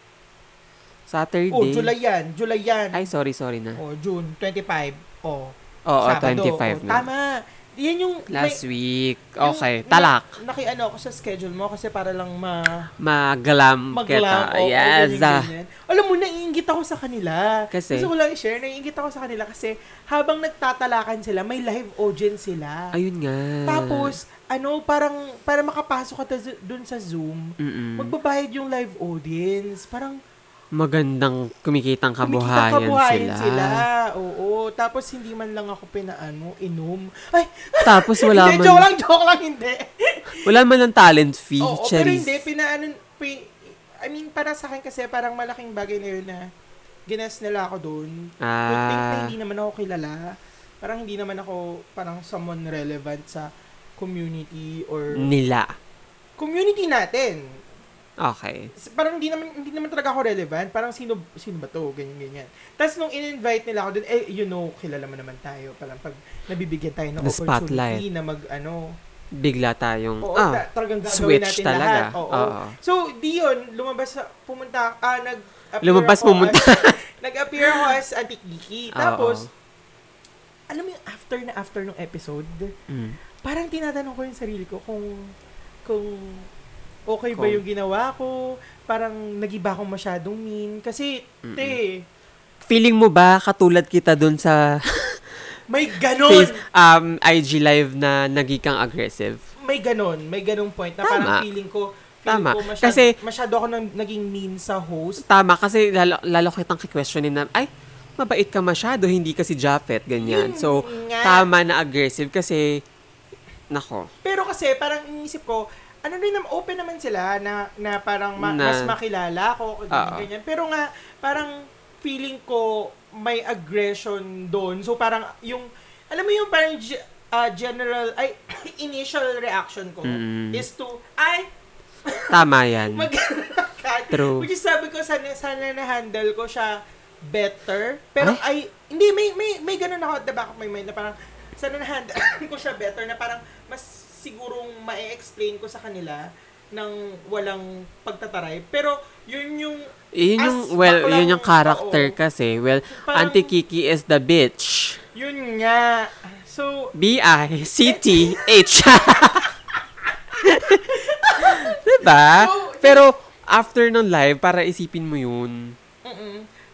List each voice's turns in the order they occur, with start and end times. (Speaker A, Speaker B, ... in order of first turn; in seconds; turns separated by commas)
Speaker A: 1.1-1.9, Speaker B: 1.5-3.1, Speaker A: 2.9-3.8, Speaker B: 3.8-8.6, Speaker A: 5.9-7.1, Speaker A: 8.3-10.3, Speaker B: 9.4-12.9, Speaker A: 13.0-15.5, Speaker B: 13.9-22.9, Speaker A: 17.7-18.1, Speaker A: 22.9-24.1, Speaker B: 23.7-30.2, Speaker A: 27.6-28.1, Speaker A: 30.8-33.8, Speaker B: 32.2-40.5, Speaker A: 37.8-38.9, Speaker A: 40.4-42.4, Speaker B: 41.6-46.5, Speaker B: 47.1-55.3, Speaker A: 48.4-49.3, Speaker A: 55.1-55.8, Speaker B: 56.4-57.6, Speaker A: 58.2-58.7, Speaker B: 58.8-69.0, Speaker A: 67.2-68.0, Speaker A: 69.3-72.8, Speaker B: 70.2-79.5, Speaker A: 75.8-77.0, Speaker A: 77.6-77.9, Speaker A: 78.9-79.5, Speaker B: 80.7-82.7, Speaker A: 82.9-83.2, Speaker B: 83.4-85.3, Speaker B: 85.8-86.5, Speaker B: 87.1-92.0, Speaker A: 87.3-87.6, Speaker A: 91.4-91.8, Speaker A: 92.7-95.3, Speaker B: 95.7-96.6, Speaker A: 96.3-99.4, Speaker B: 99.6-105.2, Speaker A: 101.0-101.4, Speaker A: 102.3-103.1, Speaker A: 105.3-112.8, Speaker B: 110.2-111.5, Speaker A: 113.7-114.1, Speaker B: 114.2-131.5, Speaker A: 118.4-118.9, Speaker A: 119.9-120.3, Speaker A: 130.0-130.6, Speaker B: 132.1-152.2, Speaker A: 132.3-133.1, Speaker A: 134.1-134.5, Speaker A: 150.1-155.0, Speaker B: 152.9-153.5, Speaker B: 155.1-156.9, Speaker A: 156.9-159.5, Speaker B: 157.8-158.6, Speaker B: 159.2-159.5, Speaker A: 160.4-165.7, Speaker B: 160.7-163.1, Speaker B: 166.0-166.4